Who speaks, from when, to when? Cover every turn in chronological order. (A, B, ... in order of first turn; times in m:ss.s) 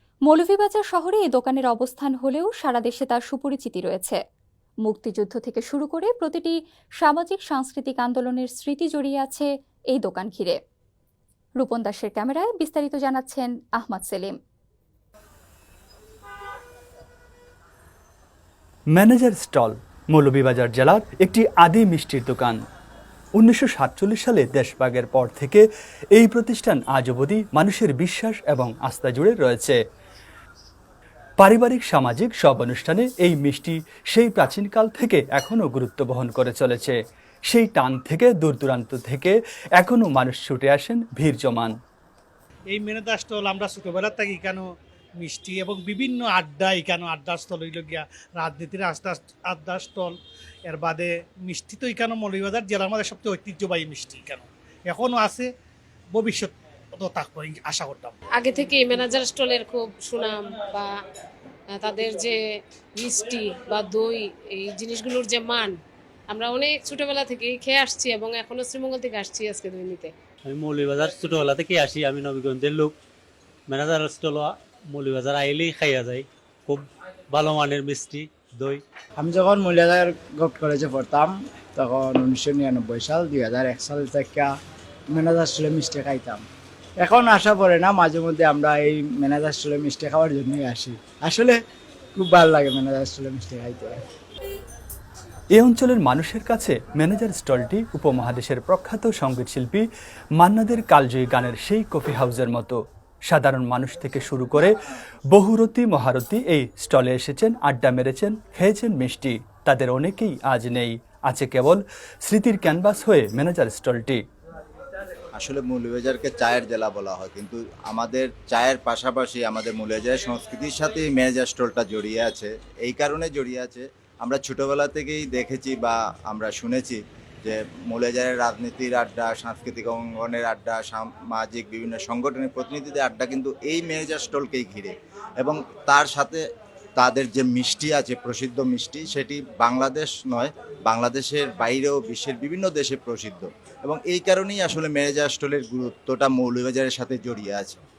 0:00.3-0:04.2 A
0:04.8-0:10.6 A
0:11.6-0:14.4 A
0:18.9-0:22.6 B
0:23.4-0:29.8 B
0:31.4-0:37.0 B
0:37.5-0:41.7 B
0:42.7-0:44.7 C
0:45.2-0:55.5 C
0:56.1-0:58.2 C
0:58.4-1:01.0 D
1:01.7-1:02.4 D
1:03.0-1:05.8 D
1:06.3-1:10.1 D
1:10.4-1:13.0 E
1:13.7-1:18.8 E
1:19.2-1:24.6 F
1:25.1-1:26.5 F
1:27.0-1:31.6 F
1:32.2-1:34.0 F
1:35.6-1:39.9 B
1:40.4-1:44.7 B
1:45.3-1:54.2 B
1:55.4-2:16.4 G
2:17.0-2:27.8 G